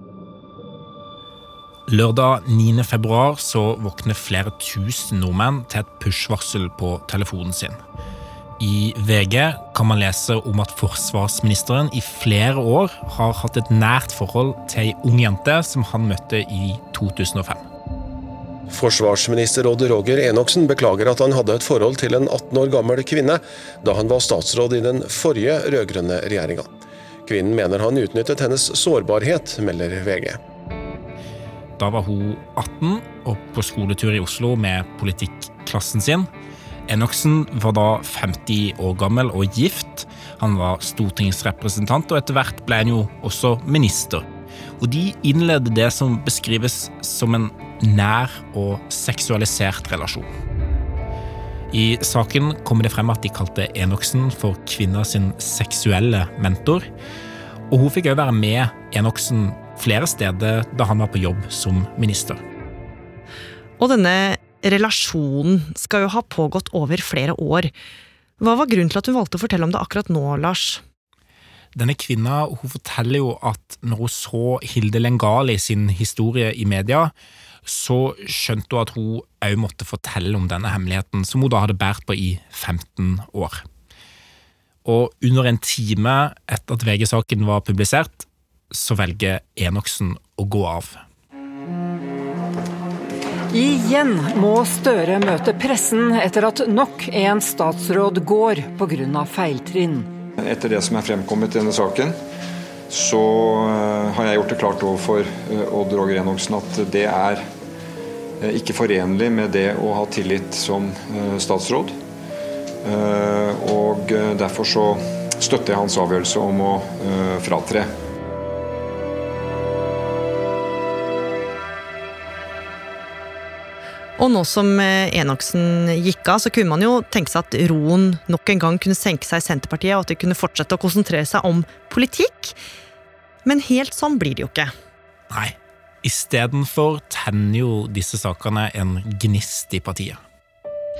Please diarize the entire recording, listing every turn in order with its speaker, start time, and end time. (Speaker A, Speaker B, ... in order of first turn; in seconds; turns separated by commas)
Speaker A: 1.9-7.8, Speaker A: 8.6-17.7, Speaker B: 18.7-26.7, Speaker B: 27.2-30.4, Speaker A: 31.8-36.3, Speaker A: 36.9-44.2, Speaker A: 44.8-50.3, Speaker A: 51.7-56.9, Speaker A: 57.7-62.4, Speaker C: 63.8-67.7, Speaker C: 68.4-70.8, Speaker A: 71.7-77.1, Speaker A: 77.6-83.6, Speaker A: 84.8-91.0, Speaker D: 93.5-100.1, Speaker E: 100.4-102.2, Speaker E: 102.9-107.5, Speaker E: 108.4-112.0, Speaker E: 112.8-117.9, Speaker C: 124.2-132.6, Speaker C: 133.4-134.7, Speaker A: 135.3-140.2